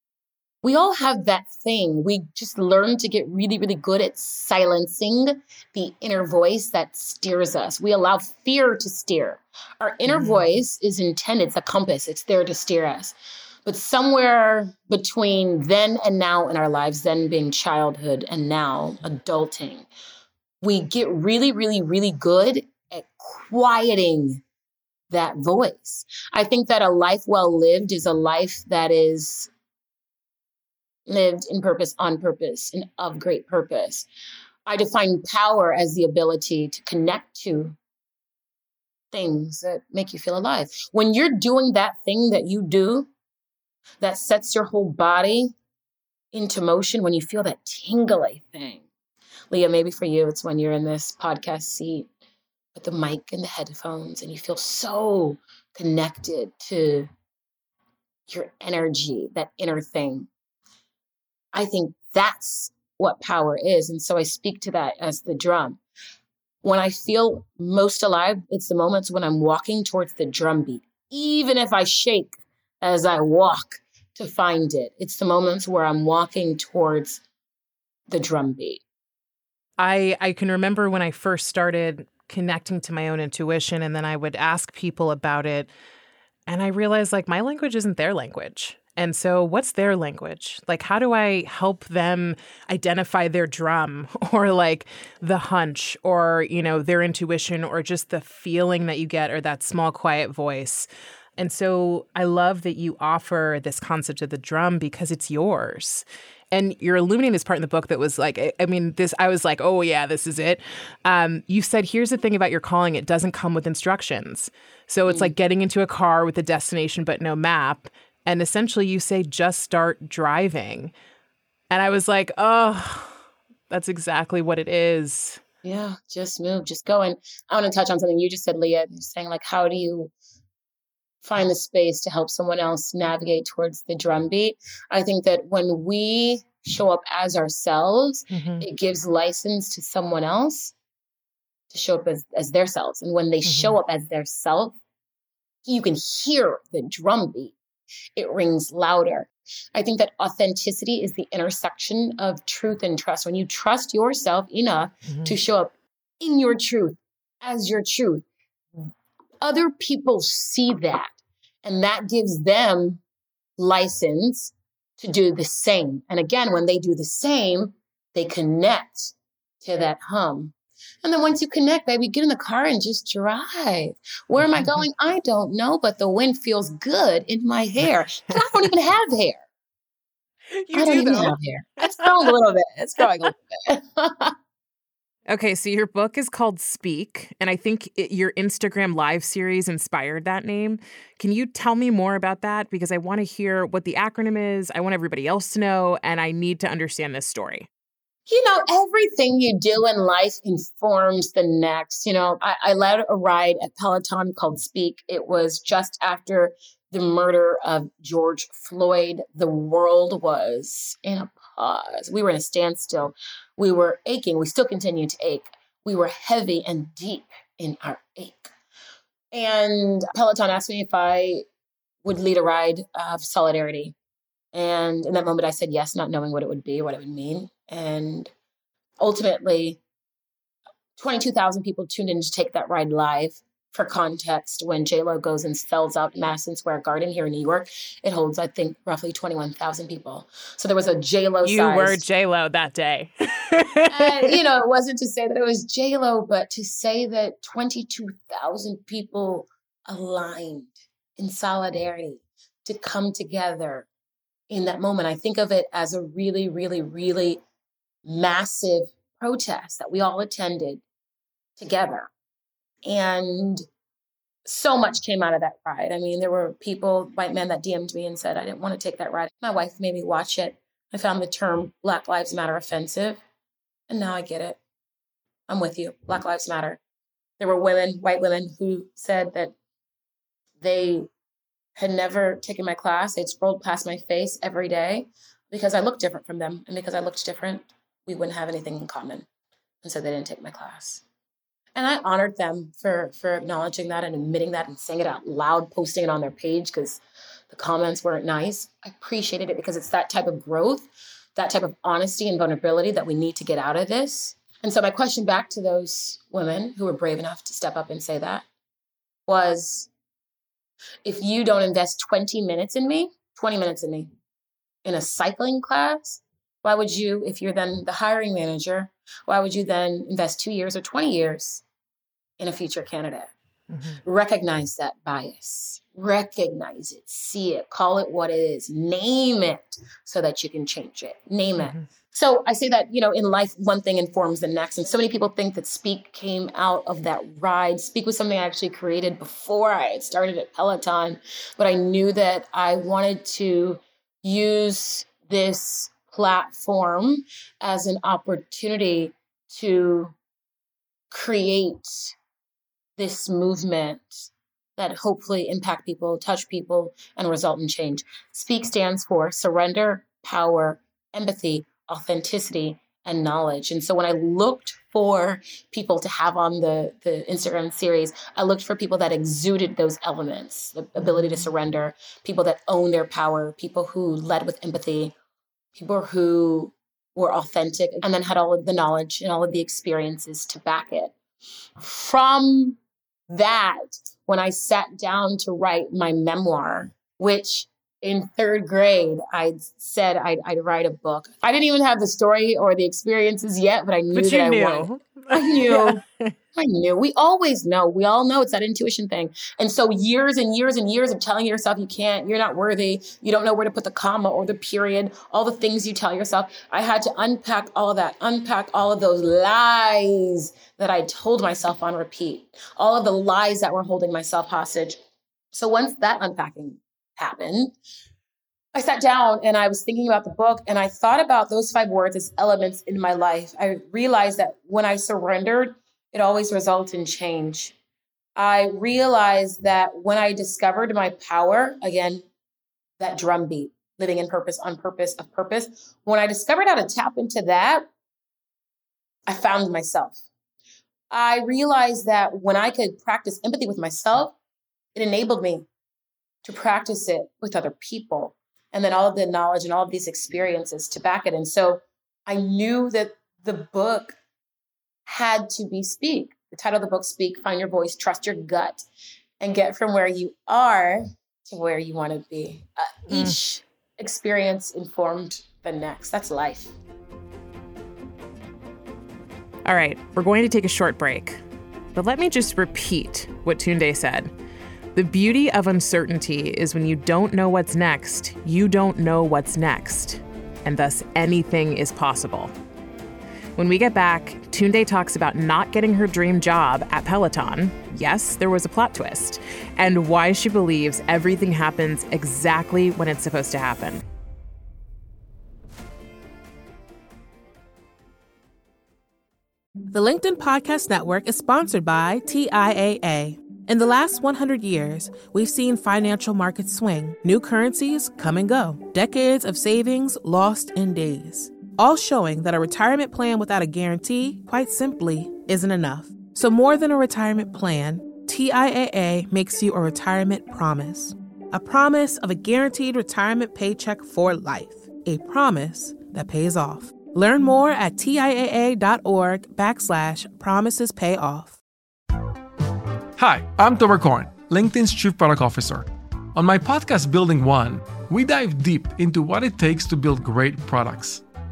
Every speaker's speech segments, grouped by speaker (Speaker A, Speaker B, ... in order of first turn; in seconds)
Speaker A: 0.6-19.9, 20.6-24.4, 25.1-29.5, 31.1-34.1, 34.6-37.8, 39.1-43.1, 44.0-45.5, 46.3-48.9, 49.5-52.1, 52.8-57.1, 58.3-60.3, 61.5-65.8, 66.6-77.2, 78.1-78.8, 115.1-115.3, 125.6-130.1, 131.2-140.7, 141.7-144.8, 145.7-147.5, 148.2-158.2, 159.4-163.0, 163.6-179.4, 180.7-184.3, 198.3-218.5, 219.3-221.5, 222.0-223.9, 224.5-228.3, 229.0-229.8, 231.0-242.0, 243.9-253.9, 254.5-257.4, 258.0-260.8, 261.6-262.1, 262.9-263.7, 264.4-273.2, 273.9-274.6, 275.5-276.8, 277.4-279.5, 280.6-281.1, 281.8-289.2, 289.8-291.0, 291.8-308.5, 309.3-309.9, 311.0-314.1, 314.9-321.6, 322.4-323.3, 324.0-350.1, 351.1-352.1, 353.0-375.1, 375.7-381.1, 381.8-396.0, 396.6-415.0, 415.5-417.7, 418.7-427.7, 428.4-432.3, 433.0-437.9, 439.3-440.2, 441.1-444.4, 444.9-445.7, 446.4-454.1, 455.1-458.8, 459.4-466.7
Speaker B: 10.1-10.4, 79.8-85.7, 86.5-120.9, 121.7-123.2, 123.7-125.4, 138.3-138.7, 143.4-143.8, 155.1-155.4, 174.4-174.8, 180.5-182.3, 185.3-197.7, 241.4-244.4, 323.7-324.0, 331.6-331.9, 371.0-371.3, 394.1-396.3, 463.1-463.4, 469.6-471.4, 471.9-474.3, 474.9-482.5, 483.6-494.0
Speaker C: 499.9-531.6
Speaker D: 533.1-541.2